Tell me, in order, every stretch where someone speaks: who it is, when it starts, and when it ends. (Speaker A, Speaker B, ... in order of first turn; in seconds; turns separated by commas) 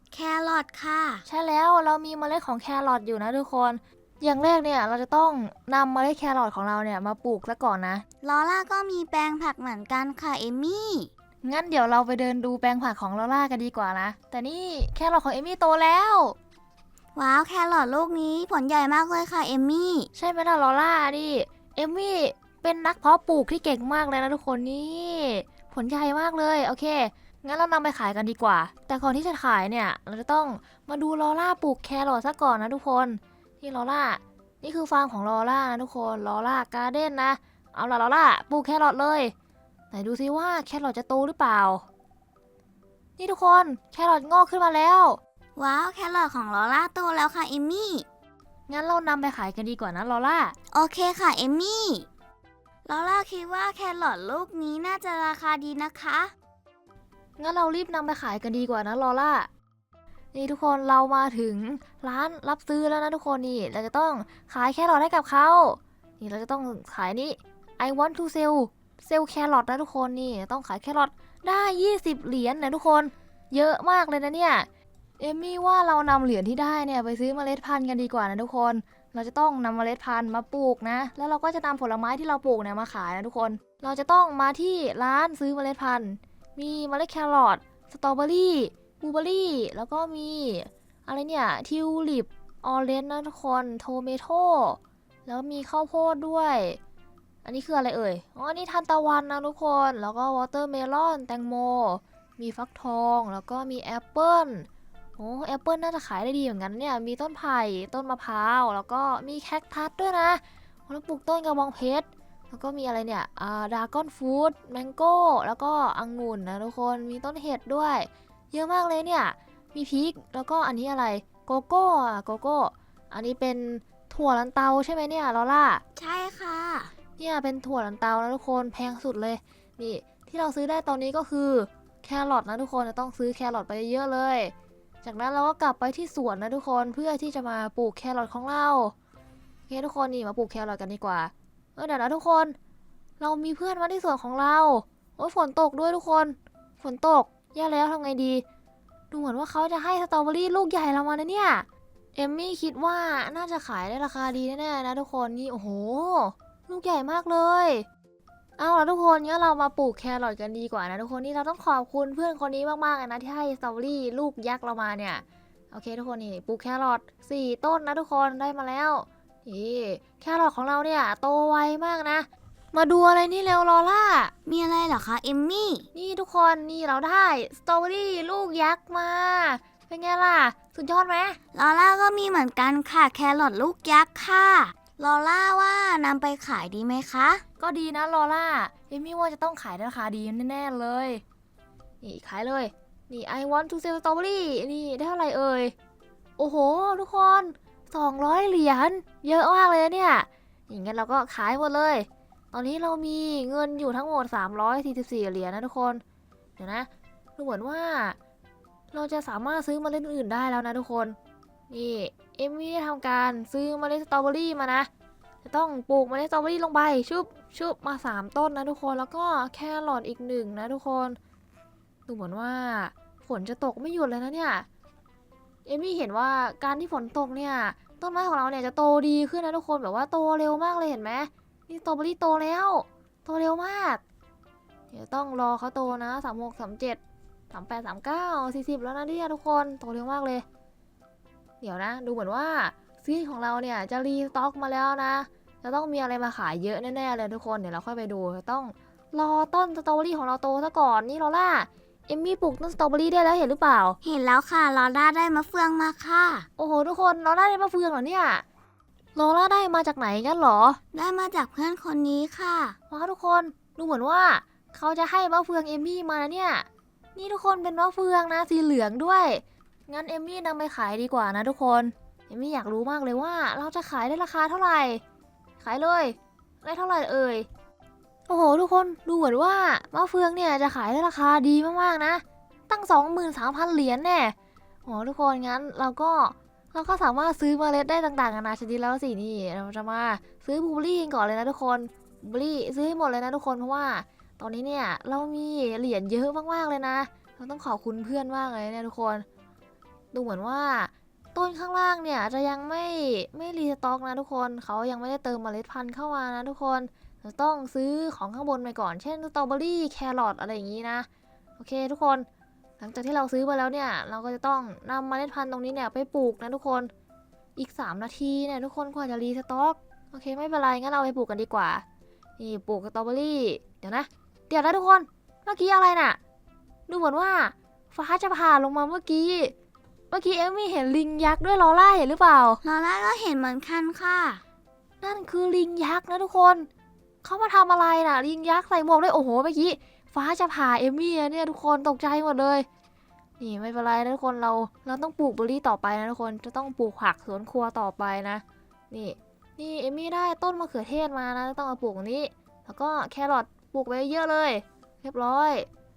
Speaker A: 0.1-1.2, Speaker B: 1.3-8.0, Speaker A: 8.2-11.1, Speaker B: 11.4-16.3, Speaker A: 17.1-20.1, Speaker B: 20.1-39.3, Speaker B: 39.9-41.8, Speaker B: 43.2-45.2, Speaker A: 45.6-48.0, Speaker B: 48.7-50.5, Speaker A: 50.7-52.1, Speaker A: 52.8-56.3, Speaker B: 57.4-59.5, Speaker B: 60.3-74.7, Speaker B: 75.2-96.8, Speaker B: 97.4-125.8, Speaker A: 126.0-126.9, Speaker B: 127.2-138.9, Speaker B: 139.7-142.6, Speaker B: 143.2-148.4, Speaker B: 149.1-157.8, Speaker B: 158.6-174.3, Speaker A: 174.4-175.9, Speaker B: 175.9-181.4, Speaker A: 181.5-187.4, Speaker B: 187.6-191.2, Speaker B: 192.0-195.7, Speaker B: 196.4-206.0, Speaker B: 206.6-208.2, Speaker B: 208.9-211.2, Speaker B: 211.7-214.9, Speaker B: 215.4-221.2, Speaker B: 222.1-224.7, Speaker B: 225.7-234.0, Speaker B: 234.9-237.0, Speaker B: 237.5-240.4, Speaker B: 241.6-254.0, Speaker A: 254.0-256.5, Speaker B: 256.6-258.4, Speaker B: 259.1-260.8, Speaker A: 260.9-262.8, Speaker B: 262.9-275.0, Speaker B: 275.6-277.5, Speaker B: 278.3-284.3, Speaker B: 284.9-299.2, Speaker B: 300.1-311.1, Speaker B: 311.6-312.3, Speaker B: 312.8-316.9, Speaker B: 317.6-321.8, Speaker B: 322.4-326.2, Speaker B: 326.9-329.5, Speaker B: 330.1-332.6, Speaker A: 332.6-334.4, Speaker B: 335.0-336.7, Speaker B: 337.2-342.6, Speaker B: 343.4-355.7